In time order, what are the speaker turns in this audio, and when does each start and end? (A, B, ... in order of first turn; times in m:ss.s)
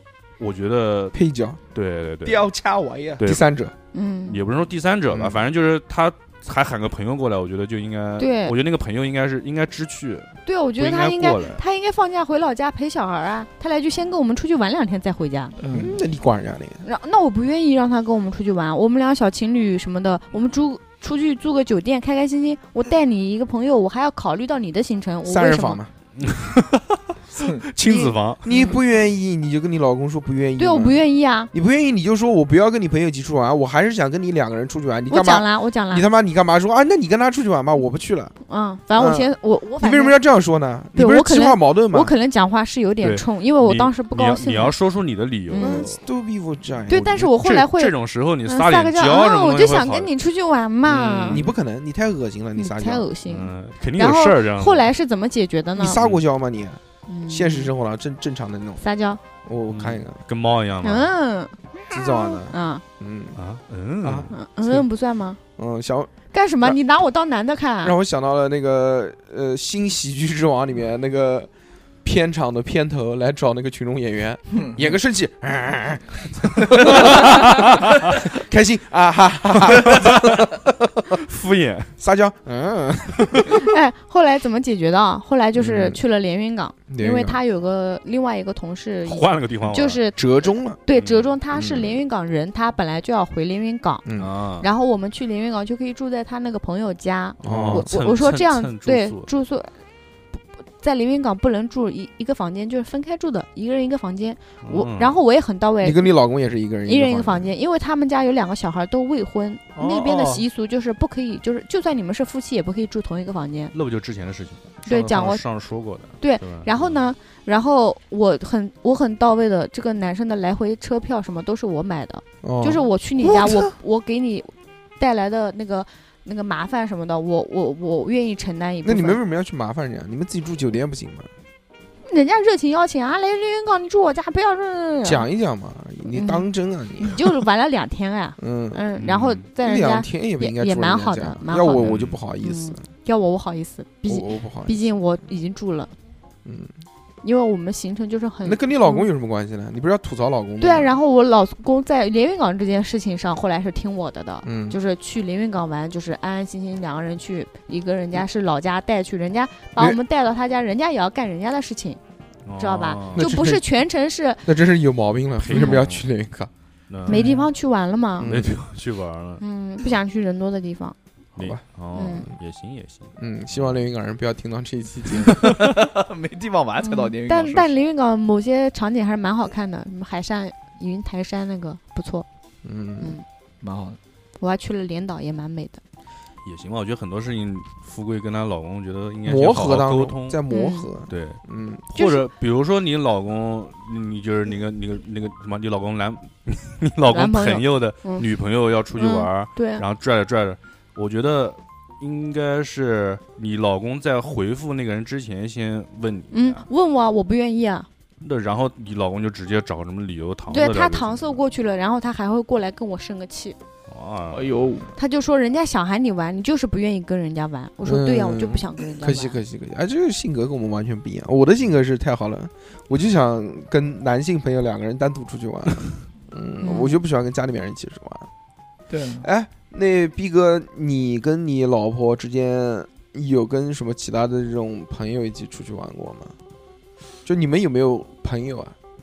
0:00.4-0:01.1 A
0:01.1-0:01.6 B
0:01.7-0:02.5 A
0:02.2-0:03.2 C
0:03.2-0:03.7 B
0:03.9-0:04.4 D
0:04.3-0:11.6 A
0:05.1-0:05.4 B
0:08.2-0:08.6 D
0:10.4-0:15.5 D
0:15.6-0:16.0 C
0:15.7-0:16.8 B
0:16.8-0:25.8 D
0:25.2-0:25.9 B
0:26.2-0:28.4 A
0:27.9-0:38.3 B
0:28.5-0:28.8 D
0:30.6-0:31.5 D
0:35.1-0:36.0 D
0:38.5-0:40.2 D
0:39.0-0:42.1 B
0:40.9-0:44.7 D
0:43.0-0:46.0 A
0:45.5-0:45.9 D
0:45.6-0:47.2 B
0:46.9-0:50.1 A
0:46.9-0:47.9 D
0:48.5-0:51.4 D
0:50.8-0:51.5 A
0:51.3-0:53.0 B
0:52.6-0:56.0 D
0:53.3-0:54.9 A
0:55.8-0:58.8 B
0:57.1-0:57.7 D
0:58.8-0:59.2 D
0:59.4-1:00.2 B
0:59.7-1:01.1 A
1:00.8-1:02.8 D
1:01.9-1:03.4 B
1:03.4-1:04.3 A
1:04.0-1:04.8 B
1:04.3-1:05.4 D
1:05.6-1:06.8 B
1:06.3-1:08.0 D
1:07.8-1:11.5 B
1:12.0-1:21.2 B
1:14.5-1:14.9 C
1:16.8-1:18.1 A
1:19.7-1:20.4 A
1:21.1-1:21.9 A
1:22.0-1:23.7 B
1:23.5-1:30.2 D
1:25.6-1:26.0 B
1:26.9-1:27.4 B
1:29.0-1:30.0 A
1:30.2-1:30.8 B
1:30.7-1:34.0 D
1:31.0-1:31.3 A
1:31.6-1:31.8 B
1:34.0-1:34.3 B
1:34.2-1:34.7 A
1:34.6-1:39.7 D
1:37.4-1:39.3 A
1:37.4-1:37.9 B
1:40.3-1:46.1 D
1:44.6-1:45.2 A
1:45.8-1:47.5 B
1:46.8-1:53.7 D
1:49.7-1:50.4 A
1:53.7-1:57.0 A
1:54.8-1:55.4 D
1:56.2-2:09.2 D
2:02.4-2:02.9 B
2:03.3-2:03.6 C
2:08.8-2:11.3 B
2:12.0-2:15.2 D
2:15.0-2:17.2 B
2:16.1-2:16.5 D
2:17.0-2:25.9 D
2:18.4-2:18.8 B
2:19.0-2:19.4 A
2:19.6-2:22.8 B
2:21.8-2:22.2 A
2:24.1-2:24.8 B
2:26.4-2:26.7 B
2:27.2-2:29.1 D
2:28.4-2:30.9 B
2:30.6-2:42.0 D
2:34.4-2:34.8 B
2:42.4-2:43.3 A
2:42.6-2:44.4 D
2:43.1-2:43.6 B
2:44.4-2:46.5 B
2:45.4-2:46.1 A
2:46.9-2:47.3 A
2:47.1-2:47.5 C
2:47.1-2:48.3 D
2:48.2-2:48.6 B
2:48.2-2:49.4 A
2:49.4-2:51.0 D
2:51.4-2:53.8 A
2:51.4-2:51.6 B
2:51.9-2:52.3 D
2:53.2-2:55.6 B
2:55.2-2:55.5 A
2:55.4-2:57.7 C
2:56.8-3:02.2 D
3:02.6-3:03.1 B
3:03.6-3:04.0 C
3:04.4-3:05.8 D
3:06.4-3:10.4 A
3:09.2-3:11.9 B
3:10.5-3:10.9 D
3:11.1-3:26.6 A
3:12.0-3:12.2 D
3:17.1-3:18.2 D
3:19.0-3:19.8 D
3:26.3-3:27.9 D
3:28.2-3:31.4 A
3:30.5-3:33.6 D
3:33.9-3:34.6 A
3:34.3-3:34.9 C
3:35.0-3:39.4 D
3:37.8-3:48.3 B
3:46.6-3:47.0 D
3:48.9-3:49.3 C
3:49.2-3:56.3 B
3:57.2-3:58.7 B